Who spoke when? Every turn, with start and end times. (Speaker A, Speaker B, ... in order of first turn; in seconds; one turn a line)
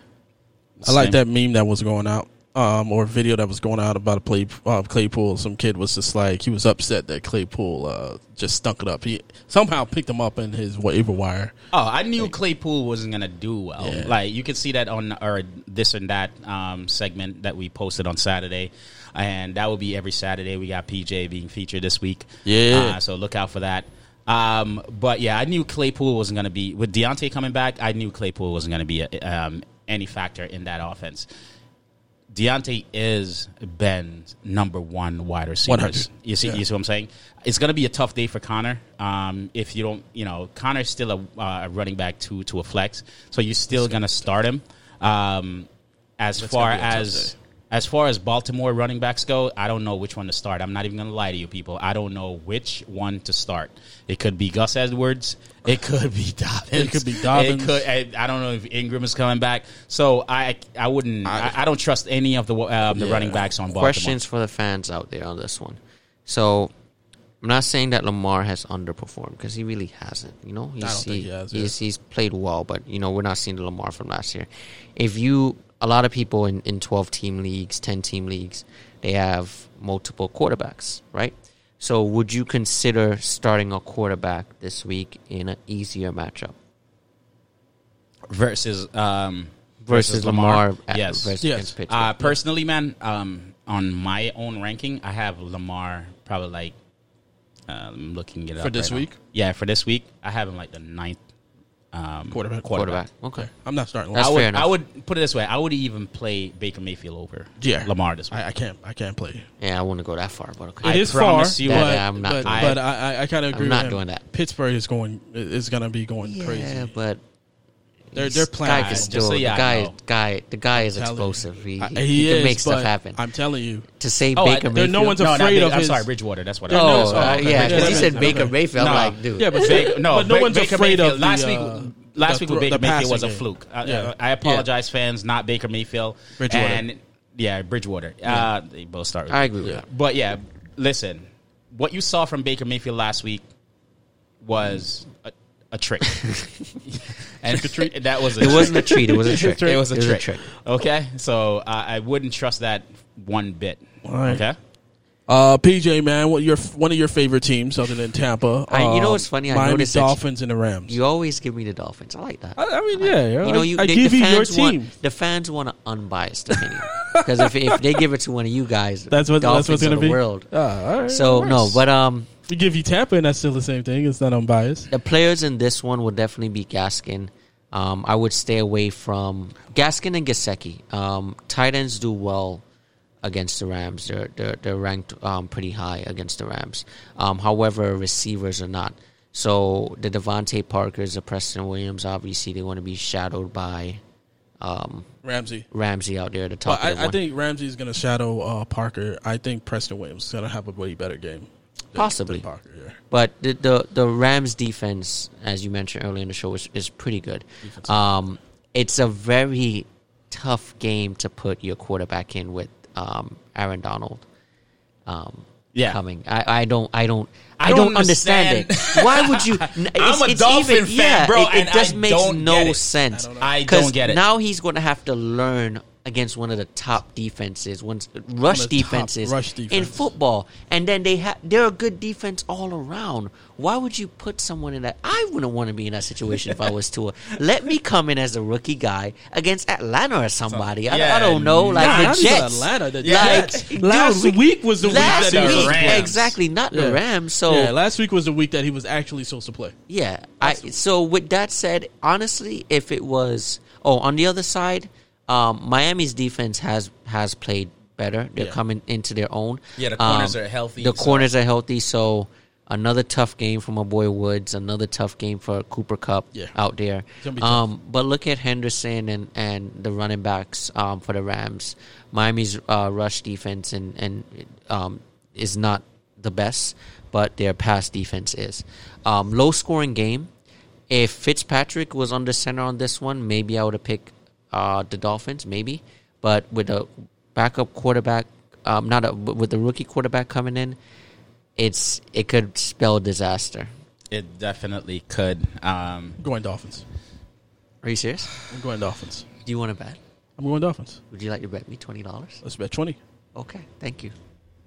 Speaker A: 0.8-1.2
Speaker B: 0.8-11.5
Speaker A: 11.7-31.3
Speaker B: 13.8-14.1
Speaker B: 22.4-23.0
Speaker A: 32.3-45.7
Speaker B: 35.6-36.6
Speaker B: 43.7-44.1
Speaker A: 46.2-64.2
Speaker B: 46.4-47.3
Speaker B: 56.7-57.9
Speaker B: 61.2-61.6
Speaker B: 62.9-63.4
Speaker C: 63.7-66.7
Speaker C: 67.4-86.5
Speaker B: 70.8-71.7
Speaker A: 88.3-96.7
Speaker C: 89.8-92.3
Speaker B: 91.4-91.7
Speaker A: 97.7-101.2
Speaker B: 98.6-99.2
Speaker A: 101.9-103.0
Speaker B: 102.3-102.7
Speaker C: 102.7-103.5
Speaker B: 103.3-104.3
Speaker C: 104.1-104.7
Speaker A: 104.2-108.4
Speaker B: 107.6-109.5
Speaker C: 109.6-112.7
Speaker B: 110.8-116.9
Speaker A: 110.8-112.8
Speaker C: 113.5-114.2
Speaker C: 116.2-117.2
Speaker C: 118.1-123.2
Speaker B: 118.1-119.2
Speaker A: 118.7-119.9
Speaker B: 120.7-123.8
Speaker C: 124.0-125.2
Speaker A: 124.3-143.4
Speaker B: 124.7-126.0
Speaker B: 126.7-128.5
Speaker C: 126.7-129.7
Speaker B: 129.4-134.7
Speaker B: 136.4-136.8
Speaker C: 139.3-139.8
Speaker A: 144.4-154.6
Speaker B: 147.5-149.8
Speaker C: 148.3-150.5
Speaker B: 154.0-154.4
Speaker B: 155.3-160.9
Speaker C: 158.7-160.2
Speaker C: 160.9-170.5
Speaker B: 162.6-164.9
Speaker B: 166.6-168.0
Speaker B: 169.1-171.8
Speaker C: 171.1-172.3
Speaker B: 172.5-174.9
Speaker C: 174.9-182.6
Speaker C: 183.2-194.0
Speaker C: 194.6-195.1
Speaker B: 195.2-195.7
Speaker C: 195.7-197.2
Speaker B: 196.7-203.0
Speaker C: 201.9-202.4
Speaker C: 203.1-214.2
Speaker B: 207.6-207.9
Speaker C: 215.1-247.7
Speaker A: 215.7-216.0
Speaker A: 217.6-222.8
Speaker B: 223.1-223.5
Speaker A: 223.4-224.2
Speaker B: 228.5-230.1
Speaker A: 240.5-242.3
Speaker B: 241.7-246.2
Speaker A: 243.0-243.7
Speaker A: 244.9-246.3
Speaker B: 246.7-249.7
Speaker C: 249.9-280.3
Speaker A: 259.8-261.3
Speaker B: 267.2-267.6
Speaker C: 280.9-290.8
Speaker C: 291.6-293.7
Speaker A: 294.1-296.2
Speaker B: 296.2-296.8
Speaker C: 297.8-298.3
Speaker B: 298.5-299.2
Speaker C: 299.4-300.0
Speaker B: 300.4-301.0
Speaker C: 301.1-302.4
Speaker B: 302.4-303.0
Speaker C: 303.3-304.1